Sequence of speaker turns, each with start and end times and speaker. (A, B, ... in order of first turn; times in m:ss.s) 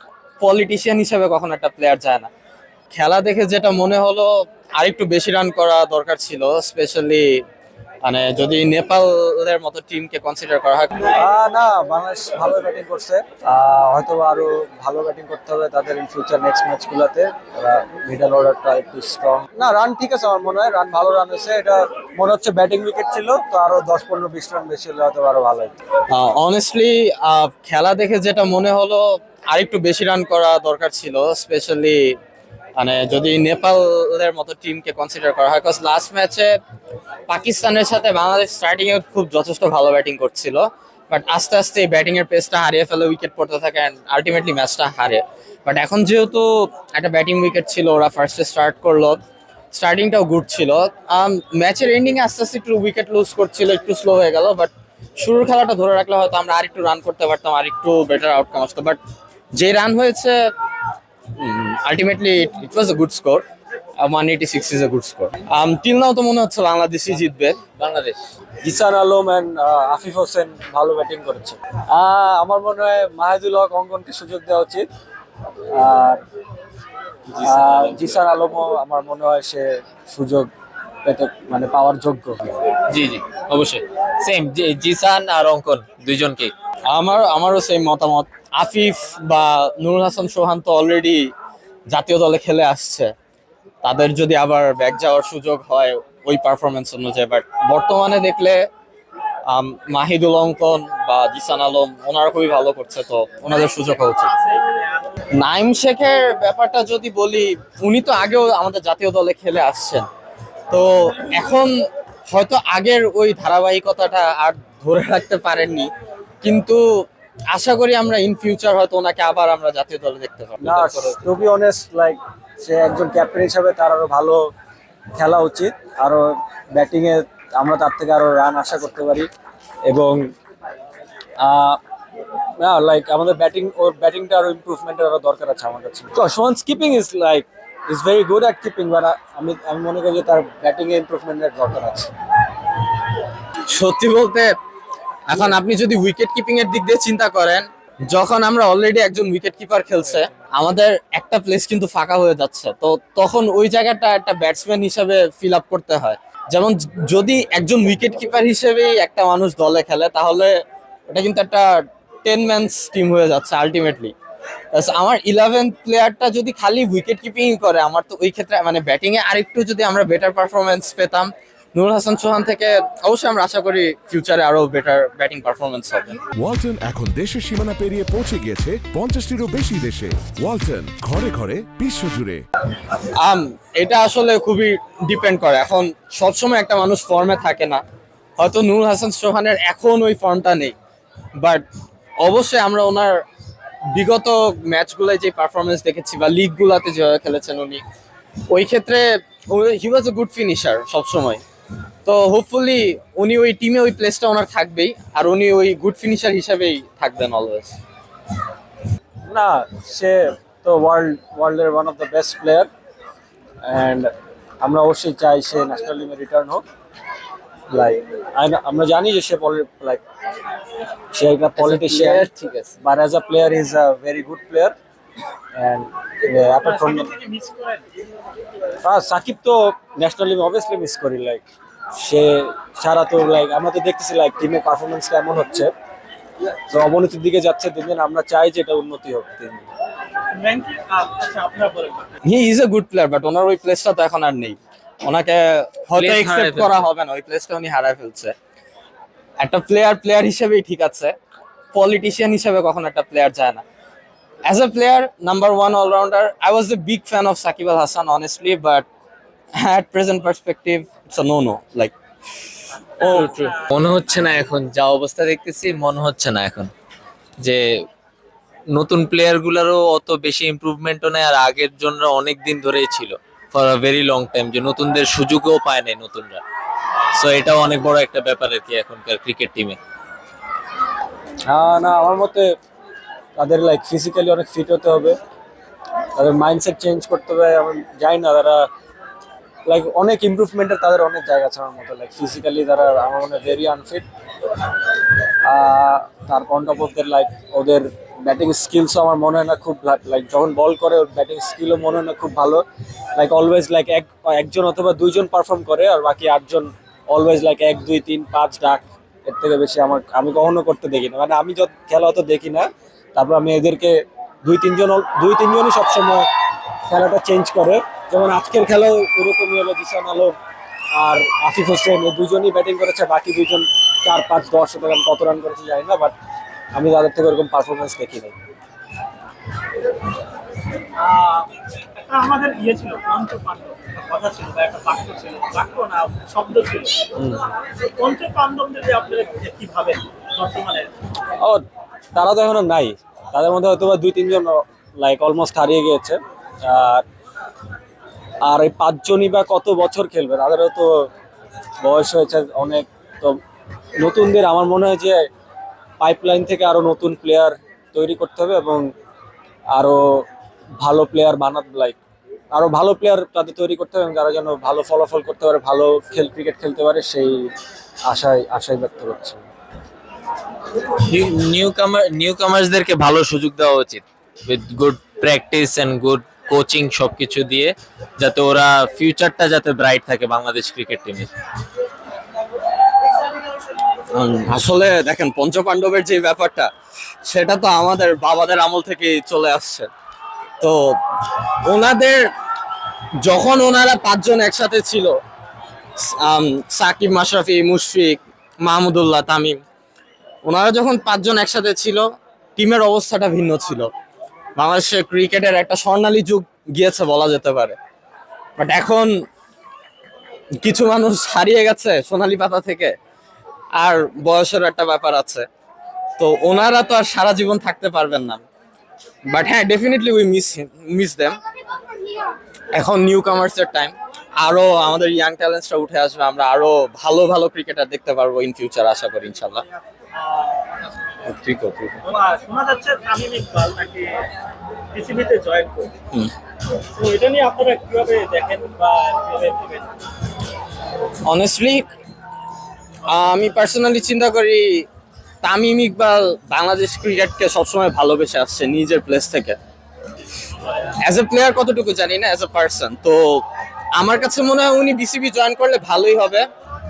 0:00.4-0:02.3 A
0:02.9-0:07.4 A
0:08.0-0:11.1 A
0:11.0-0:25.8 B
0:26.1-0:32.2 A
0:32.8-0:36.5 A
0:37.3-0:49.2 A
0:49.7-0:59.0 A
0:59.6-1:00.4 A
1:01.4-1:03.4 A
1:04.0-1:07.6 A
1:07.8-1:08.2 C
1:08.6-1:14.9 B
1:15.7-1:16.2 B
1:17.3-1:18.2 C
1:17.4-1:20.5 B
1:21.0-1:22.5 B
1:22.9-1:26.5 C
1:26.9-1:31.2 A
1:31.9-1:33.1 A
1:33.8-1:38.6 A
1:39.5-1:44.3 A
1:44.3-1:44.8 D
1:45.3-1:50.1 A
1:50.7-1:51.8 A
1:52.3-1:55.9 A
1:56.4-2:01.0 A
2:00.6-2:04.4 B
2:05.2-2:09.3 B
2:09.9-2:10.3 B
2:11.4-2:11.8 B
2:12.6-2:22.1 B
2:23.7-2:24.5 A
2:25.3-2:40.6 A
2:41.1-2:44.1 A
2:44.7-2:56.1 A
2:56.4-3:02.4 E
3:03.0-3:07.8 A
3:08.4-3:10.8 A
3:11.4-3:11.6 A
3:12.2-3:13.2 A
3:13.9-3:17.8 A
3:18.5-3:21.4 A
3:22.0-3:27.8 A
3:29.3-3:32.7 B
3:33.6-3:34.1 B
3:34.6-3:36.6 B
3:37.7-3:40.0 B
3:41.1-3:42.3 B
3:41.6-3:42.7 C
3:42.8-3:44.7 B
3:45.6-3:47.1 B
3:46.6-3:47.8 D
3:48.8-3:51.4 B
3:52.0-3:55.7 B
3:56.5-3:59.6 B
4:00.3-4:02.1 D
4:02.2-4:08.3 A
4:06.0-4:06.8 C
4:09.4-4:11.1 A
4:11.7-4:13.6 A
4:14.5-4:18.9 A
4:19.6-4:21.9 A
4:23.0-4:26.7 C
4:28.7-4:36.4 C
4:37.1-4:39.8 C
4:41.5-4:42.6 B
4:43.4-4:45.2 B
4:46.2-4:48.7 B
4:49.7-4:54.1 B
4:55.4-5:02.6 B
5:03.2-5:16.3 B
5:16.9-5:20.4 B
5:20.9-5:26.2 B
5:26.7-5:28.4 B
5:31.0-5:37.1 D
5:37.2-5:37.5 B
5:38.0-5:40.9 D
5:41.4-5:47.0 B
5:48.4-5:51.1 B
5:51.8-5:53.4 B
5:54.0-5:55.3 B
5:56.0-5:58.9 B
5:59.7-6:00.3 B
6:00.8-6:02.0 B
6:02.5-6:07.5 B
6:08.1-6:09.4 B
6:11.0-6:21.3 C
6:24.1-6:26.7 A
6:27.2-6:29.9 A
6:30.6-6:31.0 A
6:31.6-6:32.3 A
6:33.2-6:35.2 A
6:36.0-6:39.6 A
6:40.5-6:42.0 A
6:42.6-6:43.9 A
6:44.6-6:47.8 A
6:48.6-6:49.1 A
6:50.6-6:53.0 A
6:53.8-6:55.5 A
6:56.2-6:58.4 A
6:59.3-7:01.4 A
7:02.7-7:09.6 A
7:10.2-7:10.7 D
7:11.3-7:12.0 A
7:12.1-7:14.3 D
7:14.9-7:15.9 D
7:16.9-7:19.9 D
7:21.2-7:21.8 A
7:23.1-7:24.9 A
7:25.4-7:29.6 A
7:30.8-7:33.4 A
7:34.0-7:36.5 A